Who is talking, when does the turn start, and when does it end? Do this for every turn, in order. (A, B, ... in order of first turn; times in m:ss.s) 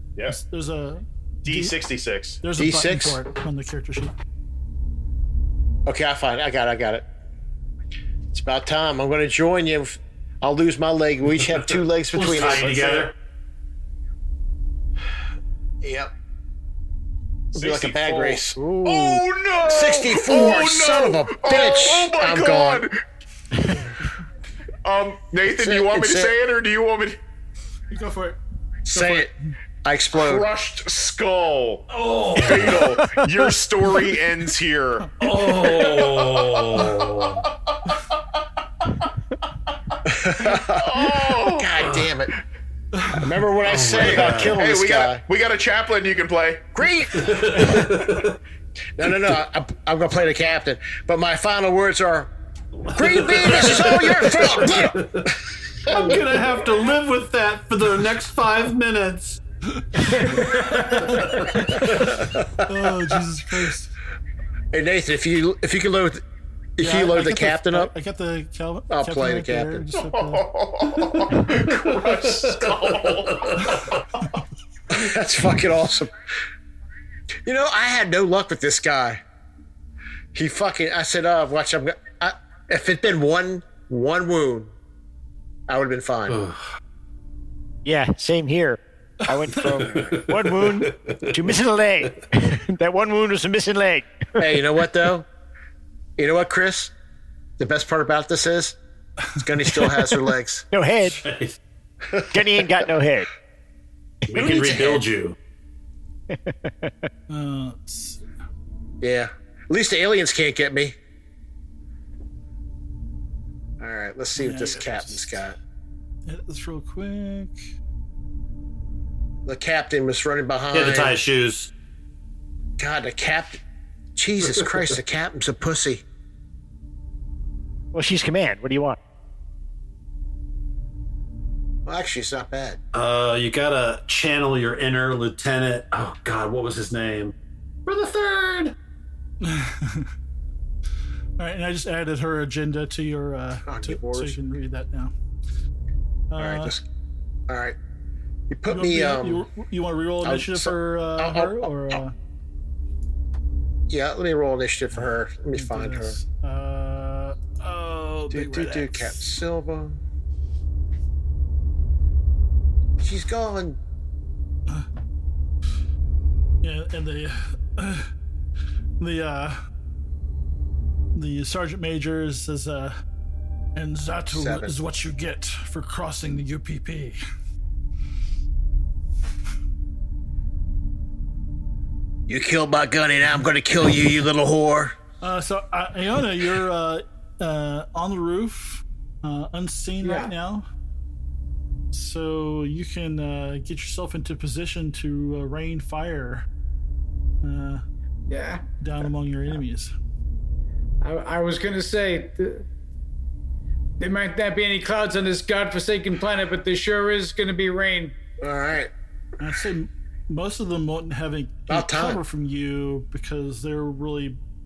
0:00.3-0:01.8 A
0:01.4-0:02.4 B
0:02.4-0:04.1 A
0:02.6-0:03.2 C
0:05.9-0:07.0 C
0:08.3-0:12.8 C
0:12.1-0:13.1 D
0:12.6-0:13.1 B
0:15.8-0:16.1 C
0:17.6-0:18.6 C
0:17.6-0:23.0 B
0:18.6-0:19.2 E
0:19.7-0:22.9 C
0:24.8-0:27.2 B
0:25.6-0:26.3 C
0:27.9-0:28.4 A
0:28.9-0:29.3 C
0:28.9-0:29.3 A
0:29.8-0:30.5 C
0:30.2-0:38.2 B
0:31.9-0:32.9 D
0:32.8-0:33.5 E
0:35.2-0:37.5 D
0:39.9-0:41.7 B
0:40.0-0:42.3 C
0:43.0-0:43.3 A
0:43.2-0:45.2 C
0:43.6-0:44.6 D
0:43.9-0:46.7 B
0:46.8-0:47.9 C
0:47.2-0:48.4 D
0:47.8-0:48.2 B
0:49.0-0:52.3 C
0:52.8-0:59.4 D
0:52.9-0:55.4 C
0:54.5-0:54.8 B
0:55.9-0:56.2 C
0:59.7-1:03.9 A
1:01.6-1:03.2 C
1:04.7-1:06.2 C
1:06.8-1:07.9 C
1:06.8-1:10.5 A
1:08.9-1:09.9 C
1:10.0-1:14.0 B
1:11.4-1:13.8 D
1:14.9-1:16.1 C
1:17.4-1:19.2 C
1:20.3-1:24.8 C
1:25.7-1:26.4 C
1:26.3-1:26.7 D
1:27.8-1:34.2 E
1:29.6-1:31.4 D
1:34.4-1:35.3 C
1:36.2-1:36.9 C
1:37.6-1:38.8 C
1:39.4-1:40.7 C
1:40.7-1:41.2 E
1:41.1-1:41.6 D
1:42.3-1:43.3 E
1:44.3-1:45.4 D
1:44.3-1:45.1 C
1:46.3-1:47.1 E
1:47.3-1:48.2 A
1:49.0-1:51.0 C
1:53.8-1:55.6 C
1:54.4-1:55.4 A
1:56.3-1:57.6 A
1:59.5-2:01.2 C
2:00.7-2:01.7 D
2:02.8-2:03.6 C
2:04.2-2:06.0 C
2:07.9-2:09.0 E
2:11.9-2:12.8 C
2:12.9-2:17.3 D
2:17.9-2:18.8 D
2:19.4-2:20.1 A
2:21.4-2:25.1 A
2:23.6-2:24.4 C
2:26.3-2:26.8 A
2:26.4-2:26.8 C
2:27.5-2:27.8 C
2:28.5-2:29.5 C
2:28.7-2:32.2 A
2:30.2-2:32.0 C
2:33.9-2:36.2 C
2:35.5-2:39.3 A
2:38.3-2:40.0 C
2:43.0-2:43.8 C
2:46.6-2:48.1 A
2:49.0-2:49.6 A
2:51.2-2:53.0 A
2:53.8-2:57.2 A
2:54.3-2:54.8 C
3:02.3-3:05.0 C
3:05.2-3:10.7 A
3:10.0-3:10.3 F
3:11.9-3:16.5 A
3:17.4-3:17.8 A
3:18.3-3:18.6 F
3:18.8-3:19.9 A
3:21.0-3:22.7 F
3:24.0-3:28.2 F
3:28.4-3:28.9 C
3:29.4-3:34.4 A
3:31.7-3:32.2 C